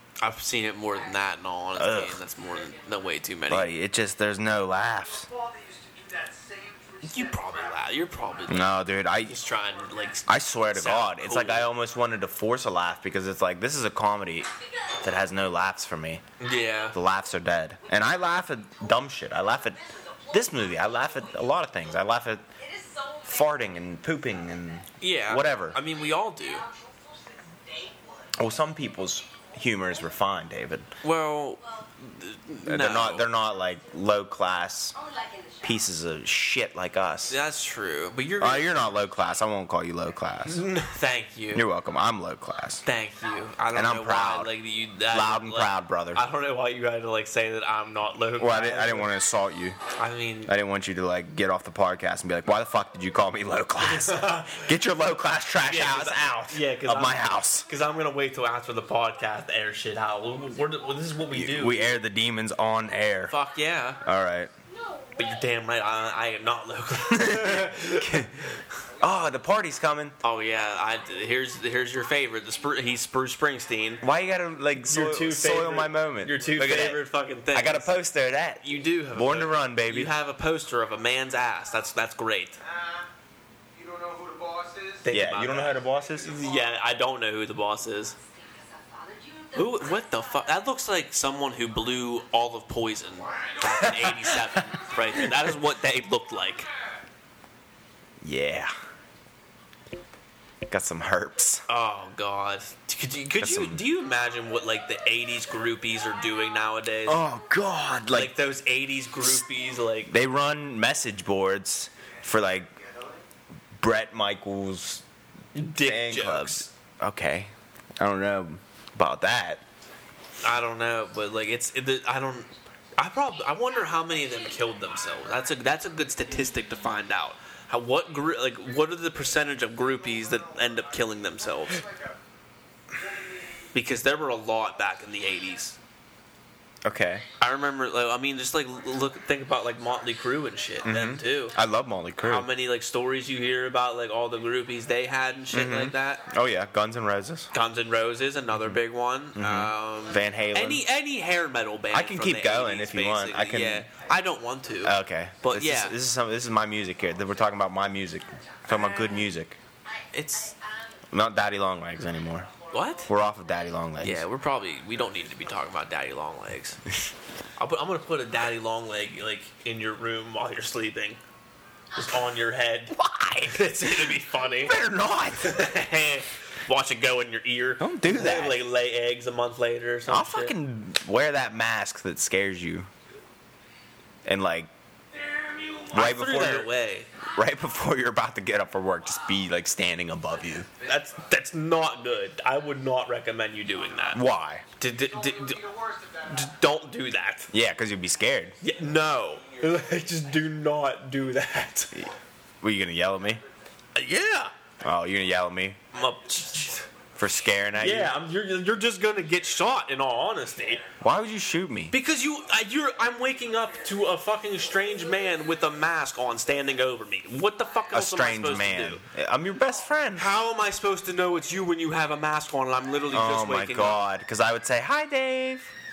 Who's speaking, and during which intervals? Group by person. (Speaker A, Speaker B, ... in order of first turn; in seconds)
Speaker A: 0.2-3.7, 7.0-11.7, 16.4-17.0, 25.0-26.6, 31.0-33.3, 37.3-38.9, 40.4-41.7, 42.8-49.1, 50.0-50.5, 53.8-54.8, 55.6-61.9, 63.3-64.0, 65.2-68.6, 70.2-74.0, 74.8-78.0, 78.6-82.6, 85.0-88.1, 89.5-96.7, 101.7-107.2, 108.1-110.1, 115.5-116.7, 120.4-131.8, 133.7-135.8, 137.4-141.6, 142.2-146.3, 147.5-156.0, 160.1-160.5, 162.7-163.1, 164.0-166.8, 167.6-171.2, 171.9-172.9, 173.5-174.8, 175.3-180.6, 185.9-187.1, 190.8-194.2, 194.8-195.6, 196.3-197.5, 198.6-201.9, 203.9-204.5, 205.9-206.9, 207.7-210.8, 211.9-219.0, 220.1-224.0
Speaker B: 1.7-2.2, 3.5-5.3, 8.5-9.4, 10.3-14.5, 15.0-16.2, 16.9-19.8, 20.3-22.4, 23.3-25.8, 28.4-30.9, 32.6-34.9, 35.6-37.4, 38.4-40.6, 41.5-42.8, 43.7-44.5, 45.1-46.2, 48.4-49.8, 50.5-57.6, 61.3-63.3, 64.0-64.5, 67.1-68.4, 69.0-70.2, 74.0-77.0, 77.5-80.1, 85.1-86.3, 93.7-94.4, 98.2-98.7, 100.7-101.6, 103.4-103.8, 107.0-108.3, 110.1-112.7, 113.8-115.0, 115.8-119.6, 136.8-137.3, 140.8-142.5, 145.5-147.5, 148.5-148.8, 149.3-150.8, 151.9-153.9, 154.8-159.6, 161.1-162.5, 163.1-164.3, 172.9-175.7, 177.8-178.6, 180.1-182.9, 184.2-184.7, 185.9-186.7, 187.3-190.7, 194.1-194.6, 197.5-198.6, 201.9-203.4, 204.8-205.8, 207.2-208.1, 211.0-211.9, 217.9-220.3, 223.1-225.7
Speaker C: 5.0-8.6, 9.6-9.9, 19.8-21.3, 26.1-28.4, 68.9-69.2, 82.6-83.1, 83.7-85.1, 86.2-86.6, 93.2-94.1, 112.8-113.2, 129.5-132.2, 132.9-133.7, 138.7-141.1, 150.1-150.6, 154.1-154.4, 156.9-157.4, 165.0-165.2, 185.1-185.9, 195.0-196.6, 199.4-200.1, 206.0-206.4, 210.7-211.0, 213.3-215.7
Speaker D: 14.6-15.0, 22.6-23.6, 31.6-31.9, 34.9-35.9, 64.7-65.6, 72.3-72.6, 88.1-90.6, 158.4-159.1, 159.8-161.1, 162.1-163.9